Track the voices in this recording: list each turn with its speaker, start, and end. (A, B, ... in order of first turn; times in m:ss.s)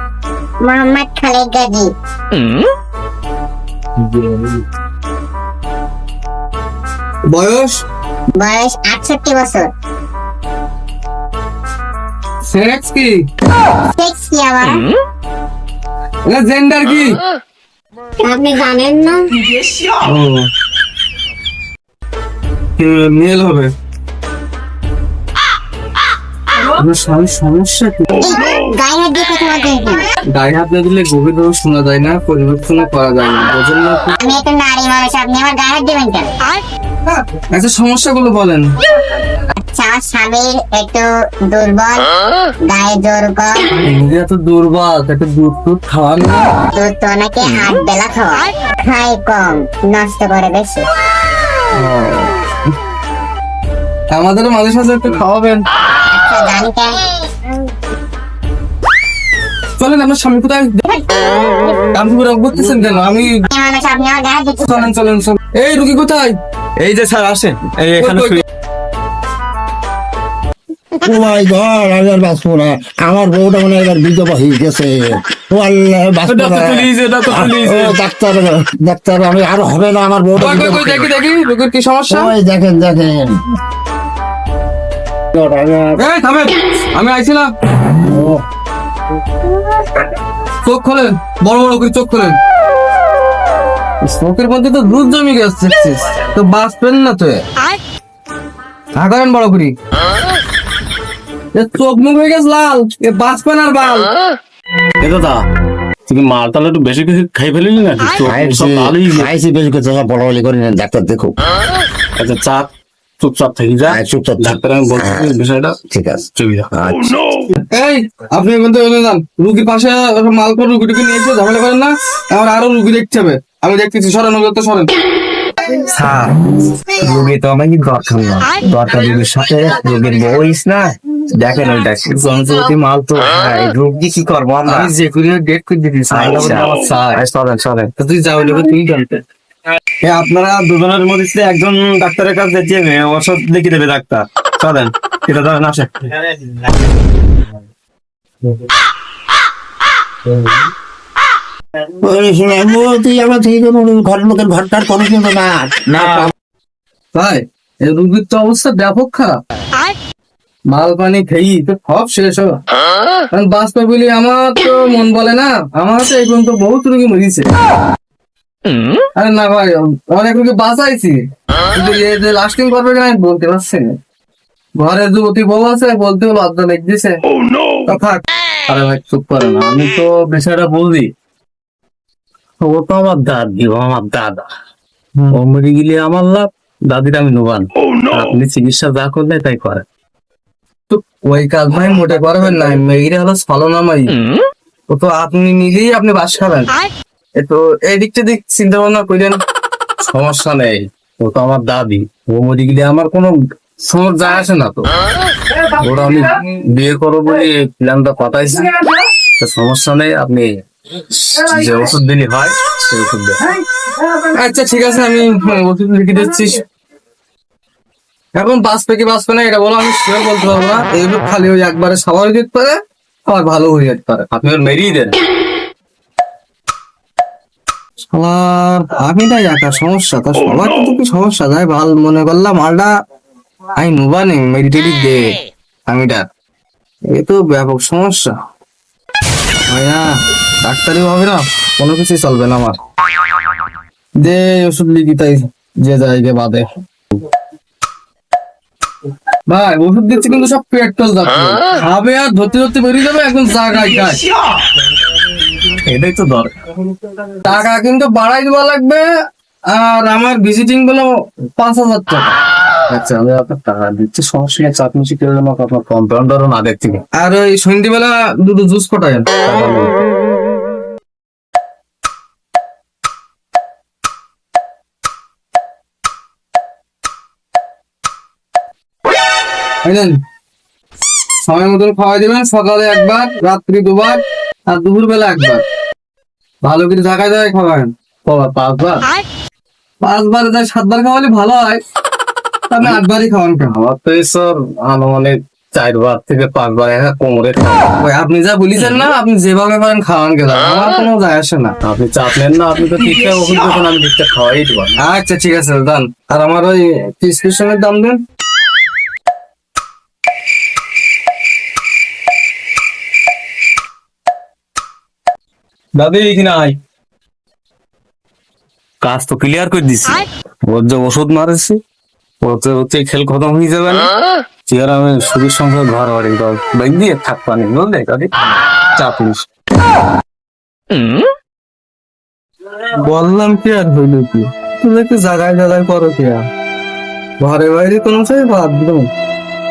0:00.6-0:01.9 A
0:07.3-0:07.8 B
0:08.4-0:09.7 A
0:12.5-0:13.3 B
0:14.0-0:14.9 A
0:16.3-0:17.2 B
0:18.2-0:19.3 A
0:20.0-0:20.5 B
0:22.8-0:23.7 B
0:26.8-0:28.3 B
0:28.2-0:30.1 A
0:30.3-0:34.2 B
0:34.2-0:36.3 A
0:37.1-0:38.7 B
0:39.6-0:42.1 A
0:42.6-0:43.7 A
0:43.8-0:46.5 B
0:46.8-0:50.9 A
0:51.8-0:52.4 B
0:54.1-0:55.6 B
0:56.1-0:57.3 A
0:59.8-1:00.8 B
1:00.9-1:01.6 A
1:01.9-1:03.4 B
1:03.5-1:04.8 A
1:04.7-1:06.4 B
1:06.8-1:08.4 C
1:08.0-1:08.4 B
1:11.0-1:20.9 D
1:16.3-1:17.9 C
1:20.4-1:22.3 B
1:22.1-1:23.4 D
1:25.3-1:26.0 D
1:26.0-1:27.5 B
1:28.0-1:28.4 D
1:30.6-1:32.4 B
1:34.0-1:37.4 B
1:39.0-1:39.8 B
1:41.6-1:44.1 B
1:45.0-1:45.4 E
1:46.1-1:49.3 E
1:48.2-1:51.4 D
1:52.2-1:56.7 E
1:53.9-1:55.4 D
1:55.9-1:57.2 D
1:57.7-2:04.9 B
2:05.8-2:06.4 C
2:06.9-2:14.9 C
2:12.3-2:12.7 B
2:14.7-2:17.2 B
2:16.1-2:17.9 C
2:17.4-2:17.8 E
2:18.0-2:19.2 B
2:20.0-2:26.3 C
2:32.0-2:36.3 D
2:36.0-2:36.3 B
2:37.1-2:39.4 B
2:40.7-2:42.6 B
2:43.3-2:47.5 B
2:49.2-2:51.2 B
2:51.7-2:53.9 B
2:54.8-2:57.2 B
2:57.9-2:58.2 B
2:58.7-3:01.1 E
3:02.6-3:04.5 E
3:05.3-3:09.8 E
3:10.9-3:14.2 B
3:14.9-3:16.8 B
3:17.4-3:19.4 B
3:20.1-3:23.4 E
3:24.0-3:24.7 E
3:25.8-3:28.7 E
3:29.4-3:30.6 E
3:31.3-3:33.4 E
3:34.2-3:36.6 B
3:38.4-3:44.3 B
3:44.3-3:45.1 E
3:48.1-3:52.9 B
3:53.8-3:56.2 B
3:57.1-3:58.3 B
3:59.7-4:02.8 B
4:04.2-4:06.6 B
4:09.5-4:14.2 B
4:15.9-4:16.5 C
4:17.4-4:19.0 B
4:19.7-4:22.4 B
4:22.9-4:27.0 E
4:27.2-4:29.3 B
4:29.4-4:30.0 E
4:39.8-4:40.2 B
4:41.4-4:45.6 B
4:46.6-4:47.9 B
4:48.2-4:49.1 E
4:50.0-4:51.8 B
4:52.7-4:53.7 B
4:53.7-4:57.8 E
4:58.0-5:01.8 B
5:01.8-5:04.9 E
5:05.0-5:08.2 B
5:16.0-5:16.7 E
5:19.0-5:21.8 E
5:22.4-5:24.1 E
5:24.7-5:28.3 E
5:29.0-5:29.4 E
5:33.0-5:36.4 B
5:37.4-5:39.1 B